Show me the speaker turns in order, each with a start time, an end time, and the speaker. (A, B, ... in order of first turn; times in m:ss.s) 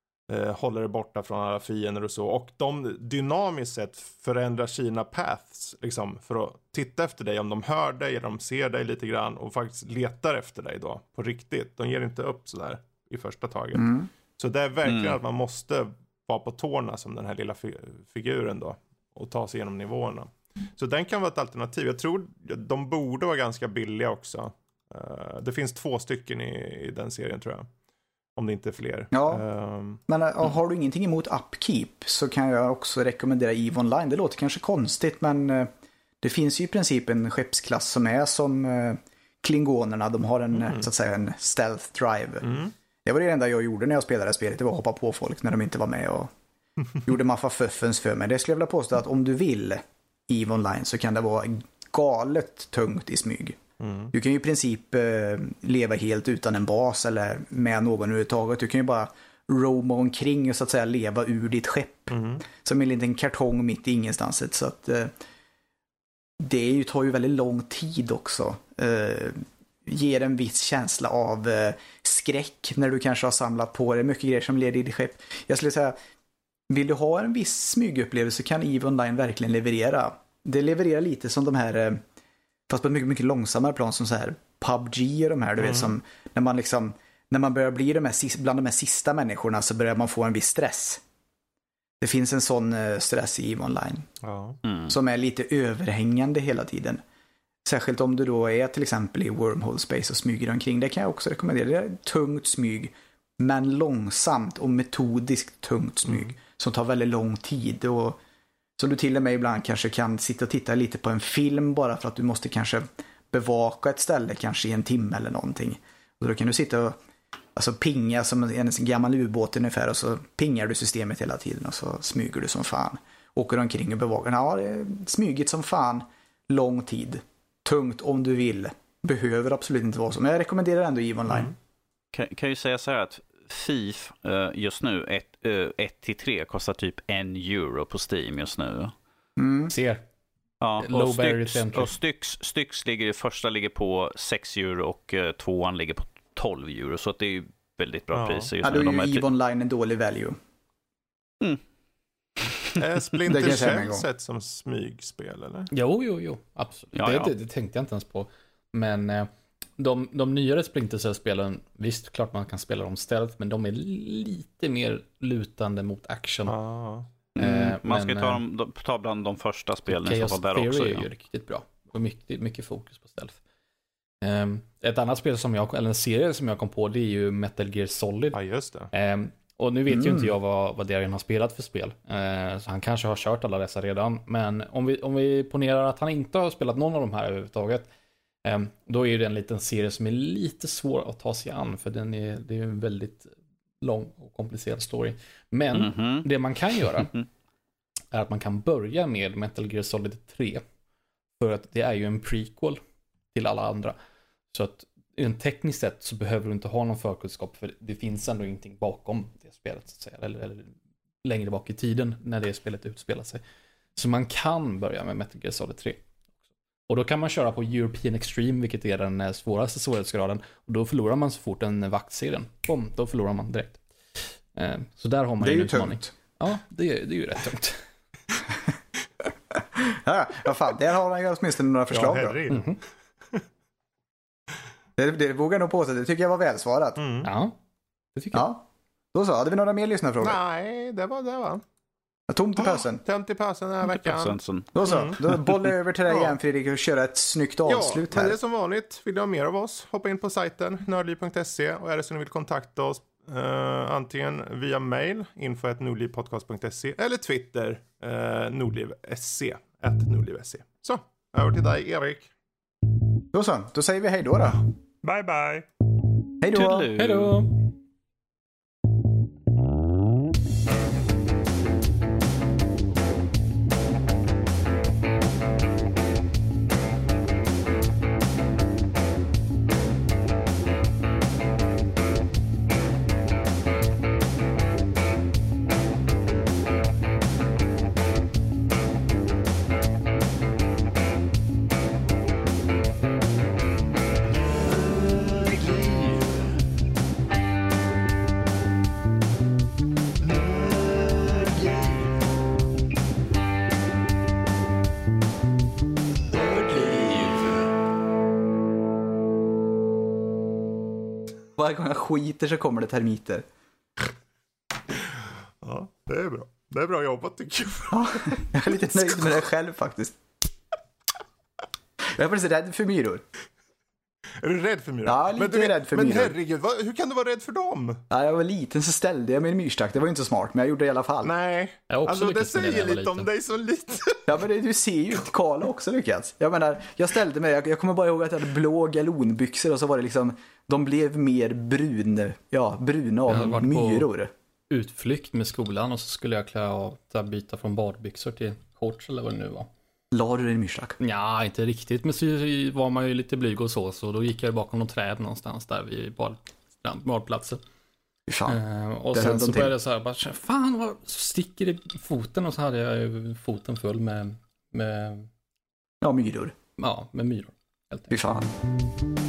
0:00.3-0:27.7 A
0:13.7-0:14.1 B
0:14.8-0:15.2 C
0:28.4-0:30.0 A
0:29.1-0:29.4 B
0:30.1-0:35.7 B
0:36.2-0:42.5 B
0:42.4-0:42.7 A
0:43.0-0:46.3 B
0:47.0-0:53.6 B
0:53.8-0:54.1 A
0:54.1-1:05.1 B
1:02.1-1:02.4 A
1:06.4-1:15.9 B
1:16.7-1:22.0 B
1:22.7-1:31.0 B
1:25.6-1:25.9 A
1:32.0-1:34.1 B
1:34.2-1:34.6 A
1:34.6-1:35.0 C
1:34.9-1:37.0 B
1:37.6-1:48.2 B
1:46.0-1:46.3 A
1:48.8-1:57.0 B
1:57.6-2:11.5 B
2:11.3-2:11.5 A
2:12.1-2:18.9 C
2:19.4-2:19.7 B
2:19.7-2:20.0 D
2:20.6-2:29.2 C
2:20.8-2:21.9 D
2:28.1-2:28.5 A
2:28.6-2:30.4 B
2:32.8-2:35.7 A
2:33.3-2:34.0 B
2:35.7-2:46.5 D
2:36.9-2:37.3 C
2:46.5-2:47.1 A
2:47.4-2:48.4 D
2:47.4-2:51.0 C
2:49.9-2:53.4 D
2:54.2-2:58.4 D
2:58.3-2:58.9 A
2:58.9-3:07.9 D
2:59.9-3:00.3 B
3:08.4-3:17.1 D
3:15.7-3:16.3 C
3:16.8-3:17.2 C
3:18.1-3:20.6 D
3:21.4-3:22.8 D
3:23.3-3:23.9 D
3:24.5-3:33.4 D
3:34.0-3:36.0 D
3:36.9-3:43.8 D
3:44.5-3:47.8 D
3:45.4-3:46.1 B
3:49.5-3:52.4 B
3:51.9-3:52.7 A
3:52.5-3:52.8 D
3:55.0-3:57.0 B
3:57.0-3:57.3 A
3:57.2-3:57.6 D
3:58.1-3:58.4 D
3:58.3-4:00.4 B
4:00.2-4:01.6 A
4:02.3-4:03.0 B
4:02.6-4:05.2 A
4:03.8-4:05.6 C
4:04.7-4:08.4 B
4:06.1-4:06.4 A
4:07.7-4:22.3 A
4:23.3-4:24.6 B
4:24.4-4:25.7 A
4:26.4-4:26.9 B
4:26.5-4:27.4 C
4:27.0-4:27.5 D
4:55.2-4:56.3 A
5:00.2-5:00.6 A
5:01.2-5:01.8 A
5:11.6-5:13.4 B
5:15.6-5:19.3 A
5:17.9-5:20.2 B
5:22.1-5:23.2 B
5:24.4-5:28.0 A
5:25.0-5:26.4 B
5:28.1-5:31.3 B
5:31.2-5:34.3 A
5:31.9-5:33.3 D
5:34.3-5:44.3 B
5:43.3-5:44.1 D
5:44.7-5:49.7 D
5:50.1-5:51.0 B
5:51.0-5:57.6 D
5:58.3-5:58.6 B
5:58.5-6:05.3 D
5:59.1-5:59.7 B
6:06.0-6:06.5 B
6:06.8-6:08.3 D
6:08.1-6:08.5 B